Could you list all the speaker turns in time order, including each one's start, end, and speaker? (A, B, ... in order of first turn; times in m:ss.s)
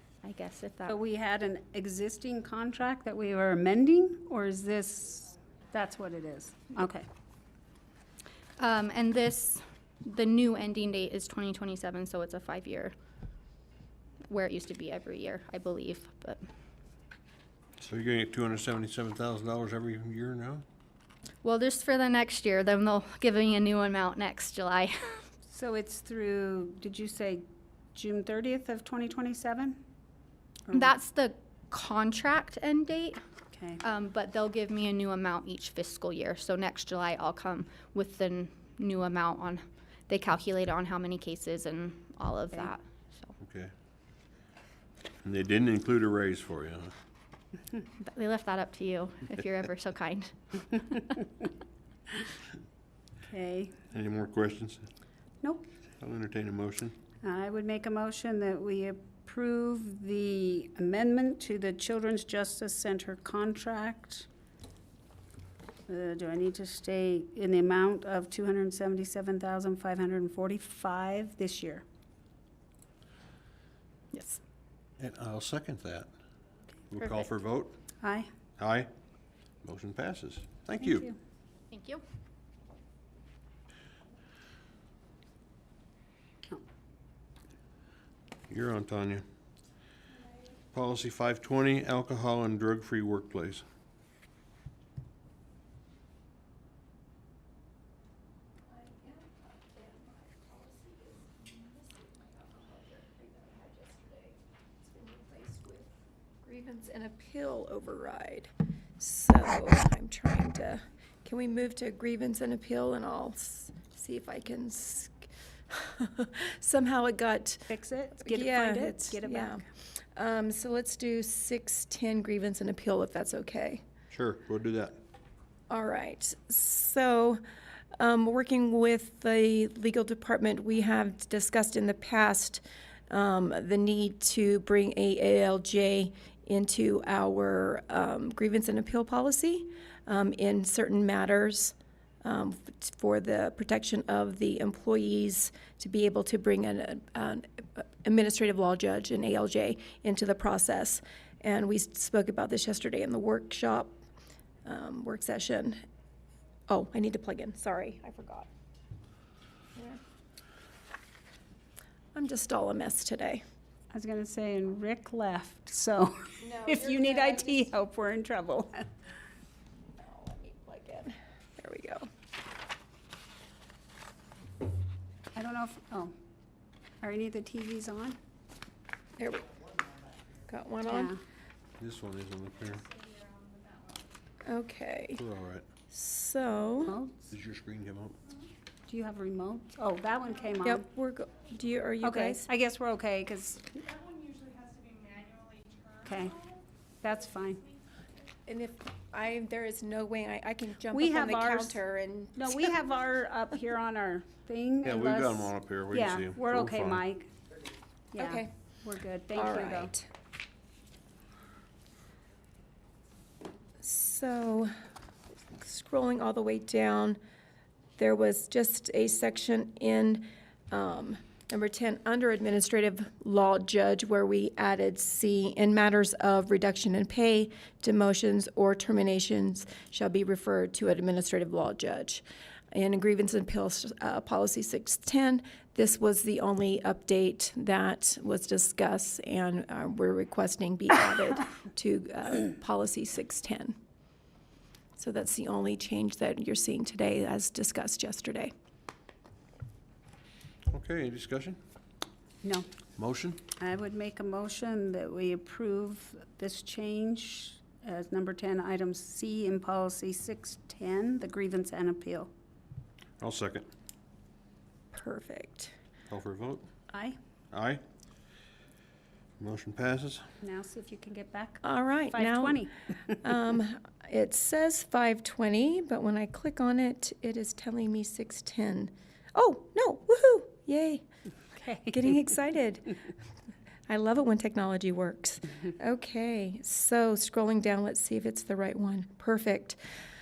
0:00.2-0:00.9 A
0:00.9-0:07.0 B
0:08.6-0:12.9 A
0:14.3-0:16.4 A
0:17.8-0:20.6 C
0:21.4-0:25.2 A
0:25.5-0:29.8 B
0:30.7-0:30.9 B
0:30.7-0:33.2 A
0:33.5-0:33.8 B
0:33.8-0:43.3 A
0:43.4-0:43.7 C
0:45.2-0:46.9 C
0:48.0-0:51.2 A
0:53.3-0:53.8 B
0:53.9-0:54.9 C
0:55.4-0:55.7 B
0:56.0-0:57.0 C
0:57.2-1:04.3 B
1:05.9-1:11.8 B
1:14.1-1:14.4 A
1:15.0-1:16.1 C
1:16.9-1:17.8 C
1:18.0-1:18.3 B
1:18.6-1:18.9 C
1:19.6-1:21.1 C
1:21.7-1:22.0 A
1:28.5-1:29.2 C
1:30.7-1:33.6 C
1:38.7-1:57.7 D
1:57.7-1:59.6 B
1:58.2-2:03.8 D
2:04.1-2:05.0 C
2:05.7-2:07.4 D
2:08.0-2:34.0 D
2:34.6-2:35.8 D
2:36.7-2:38.5 D
2:42.1-2:43.4 D
2:43.9-2:48.9 B
2:46.4-2:47.6 D
2:50.0-2:52.1 D
2:55.3-2:56.1 B
2:57.0-2:58.2 B
2:59.2-2:59.5 D
3:00.5-3:01.1 D
3:00.9-3:01.2 B
3:01.8-3:02.9 C
3:03.0-3:03.4 E
3:04.4-3:05.2 D
3:05.2-3:05.7 C
3:05.9-3:07.0 D
3:06.9-3:07.3 B
3:07.3-3:08.2 C
3:08.9-3:10.8 B
3:10.6-3:12.5 D
3:12.0-3:13.8 B
3:14.0-3:16.0 E
3:16.0-3:16.4 B
3:17.0-3:17.6 B
3:18.5-3:22.7 D
3:20.9-3:21.8 B
3:22.4-3:27.3 B
3:24.8-3:27.0 C
3:28.1-3:29.9 B
3:28.2-3:28.5 D
3:29.4-3:30.1 D
3:33.8-3:34.7 D
3:35.6-3:37.2 D
3:38.0-4:03.8 D
4:05.0-4:08.5 D
4:10.7-4:11.6 C
4:13.0-4:13.4 C
4:13.6-4:22.3 B
4:23.2-4:23.7 C
4:24.9-4:25.7 D
4:26.1-4:26.7 C
4:26.9-4:27.2 B
4:27.5-4:27.8 C
4:29.4-4:30.2 C
4:30.4-4:32.9 B
4:31.6-4:41.0 D
4:41.6-4:42.0 B
4:41.9-4:43.0 D
4:43.9-4:49.8 D